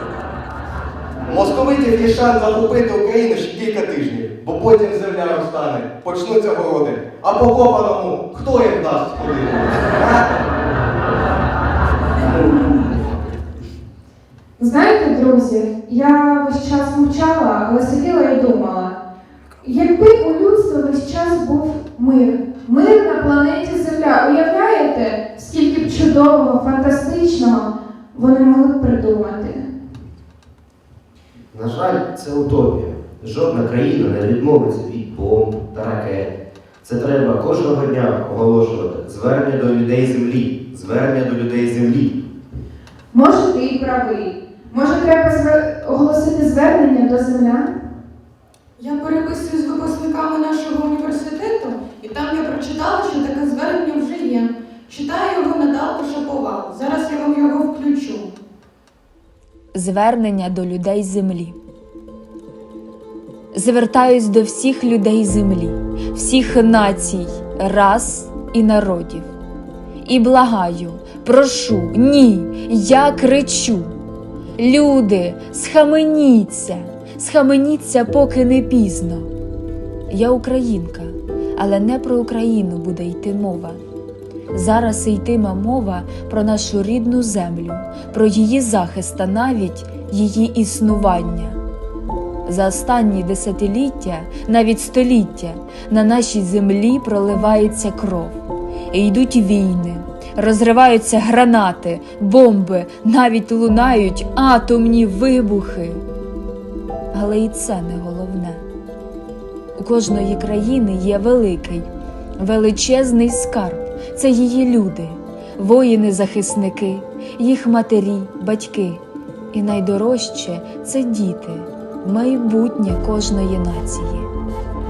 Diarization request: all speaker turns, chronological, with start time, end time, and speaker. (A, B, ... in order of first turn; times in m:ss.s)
0:01.2-0:10.4 A
0:12.2-0:13.3 A
0:14.6-0:19.0 B
0:19.6-0:29.7 B
0:31.5-0:42.2 C
0:43.1-0:47.7 B
0:48.8-0:58.3 D
0:59.7-1:01.6 E
1:03.5-1:09.3 E
1:10.0-1:13.9 E
1:14.6-1:19.3 E
1:20.1-1:23.8 E
1:24.5-1:31.6 E
1:32.4-1:46.0 E
1:47.1-1:48.6 E
1:49.8-1:59.0 E
1:59.5-2:04.3 E